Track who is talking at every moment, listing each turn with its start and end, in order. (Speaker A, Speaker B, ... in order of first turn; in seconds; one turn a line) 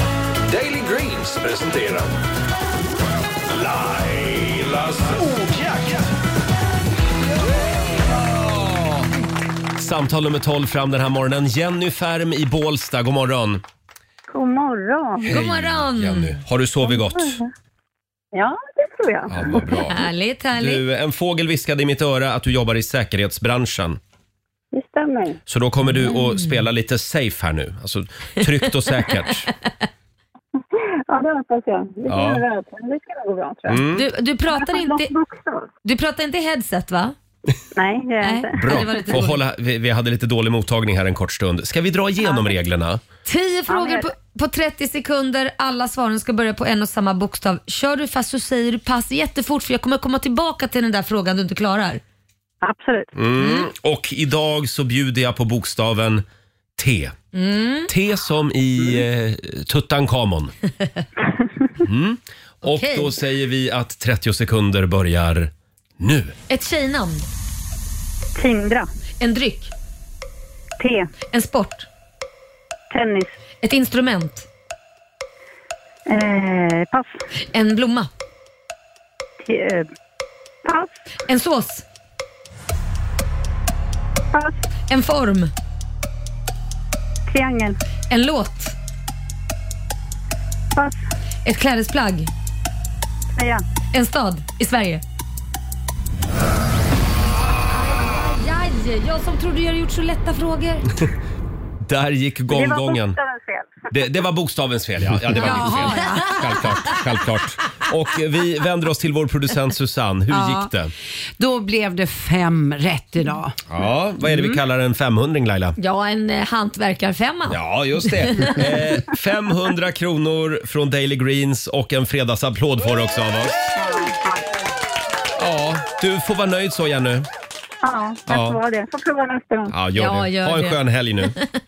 Speaker A: 0.5-2.1
Speaker A: 3.5-6.1
Speaker A: 8.2-8.9
Speaker B: 9.8-13.6
Speaker C: 14.3-15.3
Speaker B: 15.3-17.4
Speaker D: 15.3-16.4
Speaker C: 16.8-17.5
Speaker C: 18.3-19.9
Speaker B: 19.3-20.1
Speaker D: 19.9-20.8
Speaker B: 20.6-24.0
Speaker C: 24.7-25.4
Speaker B: 25.5-29.5
Speaker D: 26.1-26.4
Speaker C: 30.7-33.8
Speaker B: 32.1-32.4
Speaker B: 33.7-34.0
Speaker D: 33.9-35.1
Speaker C: 34.5-35.7
Speaker D: 35.9-37.1
Speaker C: 37.8-38.8
Speaker D: 38.2-39.4
Speaker B: 38.5-43.0
Speaker D: 43.3-52.0
Speaker C: 43.7-44.1
Speaker C: 52.6-53.1
Speaker B: 53.1-56.2
Speaker D: 53.4-53.7
Speaker B: 56.8-57.2
Speaker D: 57.3-57.9
Speaker B: 57.9-60.5
Speaker B: 61.8-66.3
Speaker D: 62.7-63.1
Speaker D: 66.5-67.3
Speaker C: 68.3-68.9
Speaker D: 69.2-69.7
Speaker C: 70.8-71.1
Speaker D: 71.3-71.9
Speaker C: 72.9-73.3
Speaker D: 73.6-74.5
Speaker C: 76.1-77.1
Speaker D: 77.5-78.1
Speaker C: 79.4-79.9
Speaker C: 80.6-80.9
Speaker D: 81.3-81.8
Speaker D: 84.9-85.5
Speaker C: 87.3-87.8
Speaker D: 88.1-88.8
Speaker D: 91.5-92.3
Speaker C: 93.3-93.6
Speaker D: 93.9-95.0
Speaker D: 97.8-100.9
Speaker B: 101.9-103.2
Speaker C: 102.5-104.2
Speaker B: 103.9-110.9
Speaker E: 105.4-106.4
Speaker D: 105.4-106.7
Speaker D: 110.3-110.7
Speaker E: 111.4-113.6
Speaker B: 113.7-115.8
Speaker E: 114.2-114.6
Speaker D: 115.8-117.6
Speaker B: 117.5-123.7
Speaker D: 118.3-118.7
Speaker C: 123.8-124.4
Speaker B: 125.4-127.3
Speaker C: 127.8-129.7
Speaker B: 128.3-128.6
Speaker B: 129.7-131.4
Speaker D: 130.0-130.8